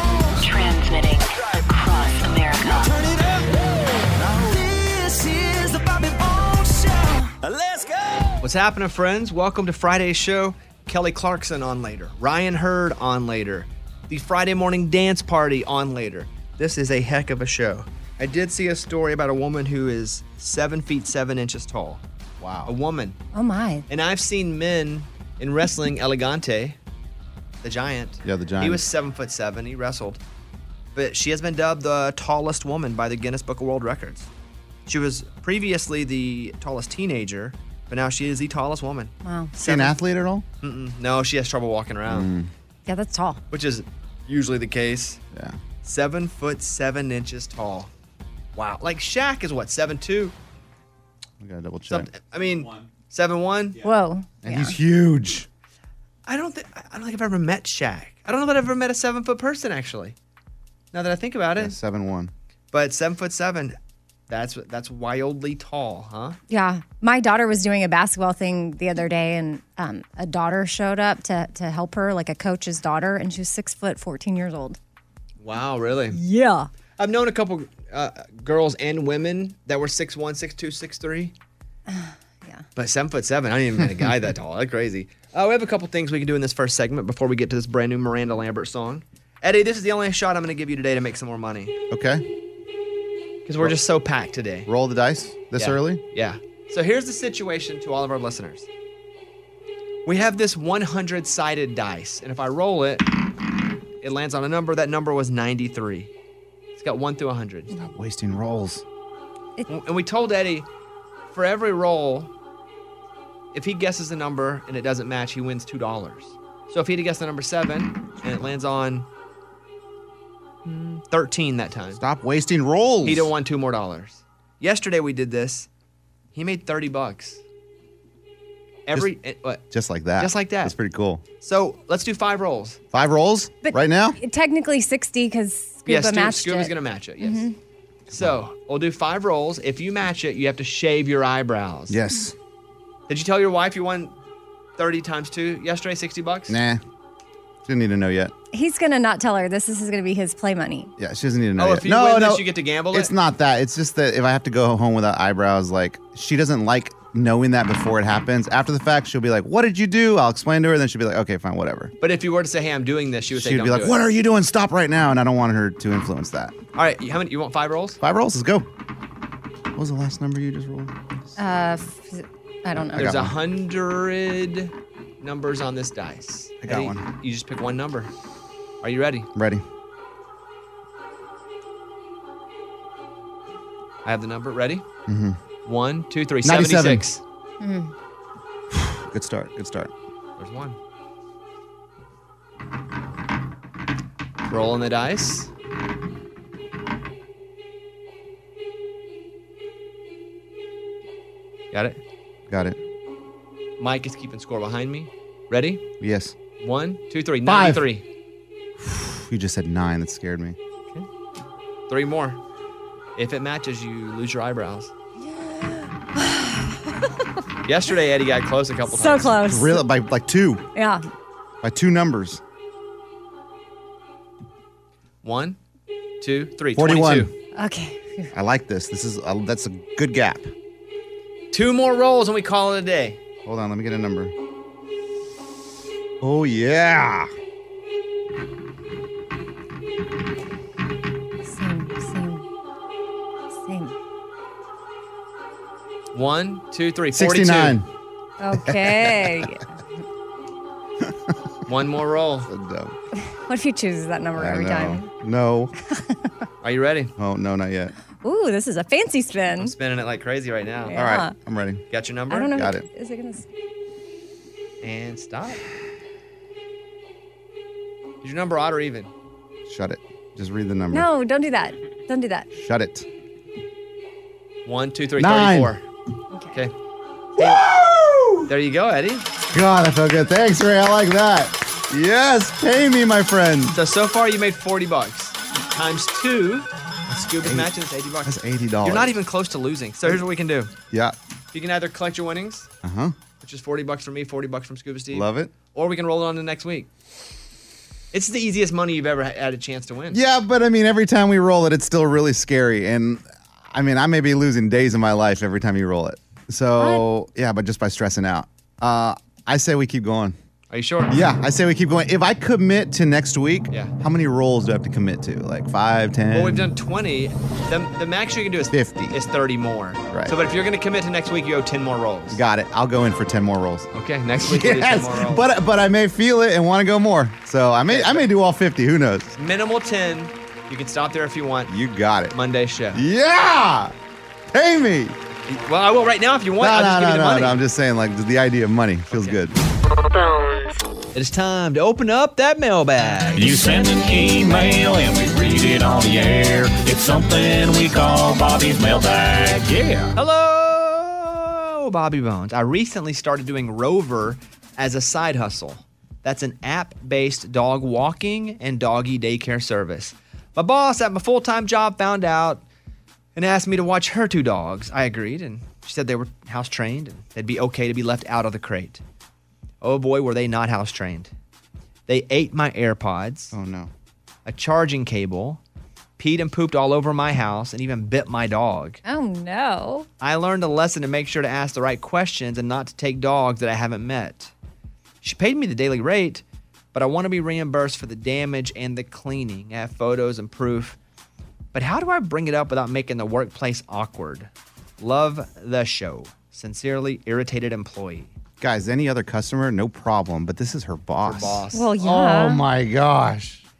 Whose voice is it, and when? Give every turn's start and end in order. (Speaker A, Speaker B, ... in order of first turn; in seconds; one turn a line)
Speaker A: 0.4-2.9
Speaker B: 8.4-22.0
Speaker C: 22.4-22.7
Speaker B: 22.6-23.1
Speaker D: 23.3-23.8
Speaker B: 23.9-26.8
Speaker B: 27.6-30.2
Speaker C: 28.2-28.8
Speaker B: 30.9-34.3
Speaker B: 34.9-40.0
Speaker D: 39.2-39.5
Speaker C: 39.6-40.4
Speaker B: 40.6-42.3
Speaker C: 42.1-42.5
Speaker D: 42.9-43.4
Speaker B: 43.5-45.2
Speaker C: 45.3-45.6
Speaker B: 45.8-47.9
Speaker B: 48.5-50.3
Speaker C: 51.4-52.1
Speaker B: 51.9-53.8
Speaker D: 53.8-54.8
Speaker C: 54.4-55.5
Speaker B: 56.2-60.1
Speaker B: 60.9-61.7
Speaker C: 61.6-62.3
Speaker B: 62.7-63.8
Speaker B: 64.3-66.4
Speaker D: 66.5-74.8
Speaker B: 75.4-76.2
Speaker D: 76.1-76.7
Speaker B: 77.0-81.3
Speaker D: 81.9-82.7
Speaker B: 82.8-91.8
Speaker C: 91.9-92.2
Speaker B: 93.5-94.7
Speaker C: 94.7-96.0
Speaker B: 95.5-98.7
Speaker B: 100.0-103.1
Speaker B: 104.0-106.1
Speaker B: 106.8-107.7
Speaker C: 107.7-108.8
Speaker B: 109.7-110.7
Speaker B: 111.3-112.3
Speaker B: 113.5-119.1
Speaker B: 120.6-122.0
Speaker C: 122.0-123.3
Speaker B: 123.0-125.7
Speaker B: 126.3-127.4
Speaker B: 128.8-129.6
Speaker C: 129.7-131.2
Speaker B: 130.2-130.7
Speaker B: 131.4-132.8
Speaker C: 132.9-134.2
Speaker D: 133.6-137.5
Speaker B: 135.8-137.4
Speaker B: 138.1-142.0
Speaker C: 141.9-142.3
Speaker B: 143.1-144.1
Speaker B: 144.8-146.6
Speaker C: 146.5-146.8
Speaker C: 147.6-148.3
Speaker D: 148.5-150.9
Speaker C: 151.0-161.9
Speaker B: 151.6-153.1
Speaker B: 162.0-164.0
Speaker C: 163.3-166.5
Speaker B: 166.7-168.0
Speaker C: 168.0-168.7
Speaker C: 169.7-171.0
Speaker D: 171.4-173.1
Speaker C: 172.9-173.3
Speaker B: 172.9-178.1
Speaker C: 176.6-177.0
Speaker B: 178.8-179.3
Speaker C: 179.3-179.6
Speaker B: 184.0-184.8
Speaker C: 185.1-185.4
Speaker B: 185.7-187.2
Speaker C: 186.4-187.0
Speaker D: 187.6-187.9
Speaker C: 188.7-189.9
Speaker B: 190.4-190.8
Speaker B: 194.4-195.5
Speaker B: 201.7-202.0
Speaker C: 202.5-202.8
Speaker B: 203.8-205.8
Speaker C: 206.0-206.3
Speaker B: 206.6-208.0
Speaker C: 207.4-207.8
Speaker C: 208.8-210.6
Speaker B: 211.9-212.4
Speaker B: 213.2-214.9
Speaker D: 215.2-216.9
Speaker B: 217.6-219.4
Speaker D: 218.9-219.8
Speaker C: 219.4-220.6
Speaker D: 220.7-221.0
Speaker C: 221.6-222.4
Speaker B: 225.2-225.6
Speaker B: 226.2-227.3
Speaker C: 226.7-227.3
Speaker D: 227.5-228.3
Speaker C: 228.3-230.5
Speaker B: 231.5-233.2
Speaker C: 233.4-234.3
Speaker C: 236.2-237.3
Speaker D: 241.4-242.4
Speaker D: 243.6-243.9
Speaker B: 246.1-247.8
Speaker C: 247.1-247.9
Speaker D: 248.4-249.7
Speaker C: 248.6-249.5
Speaker B: 251.7-252.5
Speaker C: 252.5-252.9
Speaker D: 253.3-255.1
Speaker C: 254.3-255.7
Speaker D: 256.0-256.3
Speaker B: 256.6-257.1
Speaker C: 257.2-257.9
Speaker D: 258.2-259.7
Speaker B: 259.6-261.1
Speaker D: 260.9-261.3
Speaker C: 260.9-261.8
Speaker B: 261.9-262.5
Speaker D: 262.3-263.5
Speaker C: 262.5-262.9
Speaker B: 264.8-265.6
Speaker B: 268.2-269.1
Speaker C: 269.7-271.1
Speaker D: 270.9-272.5
Speaker C: 272.6-273.1
Speaker B: 274.6-275.8
Speaker C: 275.2-275.7
Speaker D: 276.3-276.6
Speaker B: 277.4-277.6
Speaker C: 277.4-278.5
Speaker B: 278.5-279.2
Speaker C: 279.5-283.8
Speaker B: 283.7-286.7
Speaker C: 287.1-287.7
Speaker B: 287.2-290.7
Speaker C: 288.2-289.1
Speaker C: 290.9-291.1
Speaker B: 291.5-292.7
Speaker C: 292.8-293.2
Speaker B: 293.4-296.9
Speaker C: 295.1-295.5
Speaker B: 298.1-300.2
Speaker C: 300.1-310.4
Speaker D: 306.8-307.0
Speaker B: 310.7-311.1
Speaker C: 311.1-316.7
Speaker B: 316.3-322.4
Speaker C: 318.7-319.2
Speaker C: 320.1-320.4
Speaker C: 322.3-329.3
Speaker B: 323.9-325.4
Speaker B: 327.9-328.2
Speaker B: 329.4-331.7
Speaker C: 331.7-332.3
Speaker B: 332.3-333.0
Speaker C: 332.9-333.9
Speaker C: 334.5-335.1
Speaker B: 335.5-337.6
Speaker C: 336.6-339.6
Speaker B: 339.1-339.4
Speaker A: 340.1-340.8
Speaker B: 341.1-343.5
Speaker E: 343.3-350.1
Speaker B: 350.1-362.6
Speaker B: 363.4-369.0
Speaker B: 369.8-371.3
Speaker B: 372.1-373.5
Speaker C: 373.5-373.9
Speaker B: 374.4-375.6
Speaker B: 376.2-379.0
Speaker D: 379.0-380.1
Speaker B: 380.2-384.5
Speaker B: 385.2-386.4
Speaker B: 386.9-391.0
Speaker B: 391.7-398.3
Speaker C: 398.6-403.6
Speaker B: 401.2-402.3
Speaker D: 401.7-402.6